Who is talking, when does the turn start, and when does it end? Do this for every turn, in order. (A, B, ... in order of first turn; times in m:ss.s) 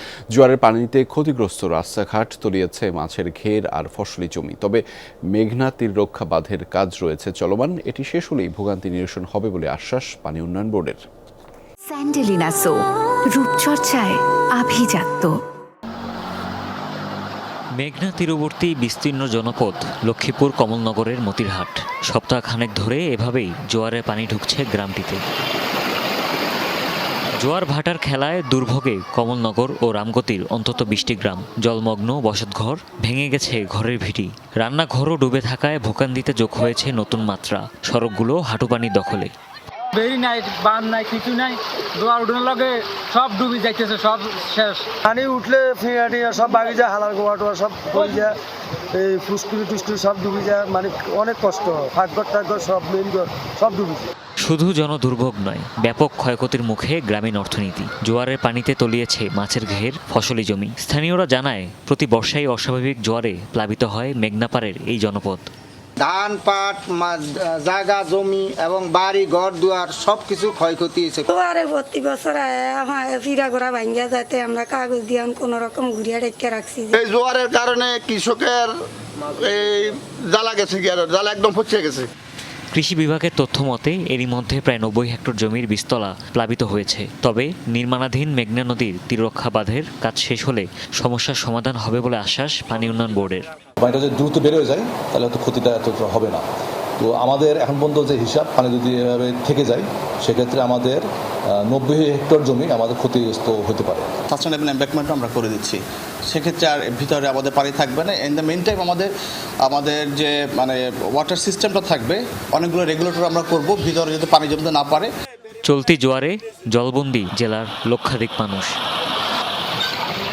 0:00.3-0:04.8 A
0:05.3-0:11.0 A
0:11.9-0:15.4 B
0:17.8-0:25.2 C
0:27.4-0:39.3 C
0:39.9-0:44.8 D
0:45.0-0:48.3 E
0:48.9-0:54.1 E
0:54.4-1:05.5 C
1:06.0-1:11.3 F
1:11.3-1:17.0 G
1:17.0-1:18.6 F
1:17.1-1:18.6 H
1:19.5-1:20.4 F
1:20.4-1:21.9 H
1:21.0-1:22.0 F
1:22.7-1:33.4 C
1:33.8-1:36.4 I
1:37.0-1:41.0 I
1:41.6-1:44.1 I
1:44.3-1:49.1 J
1:49.6-1:55.1 J
1:55.6-1:58.7 C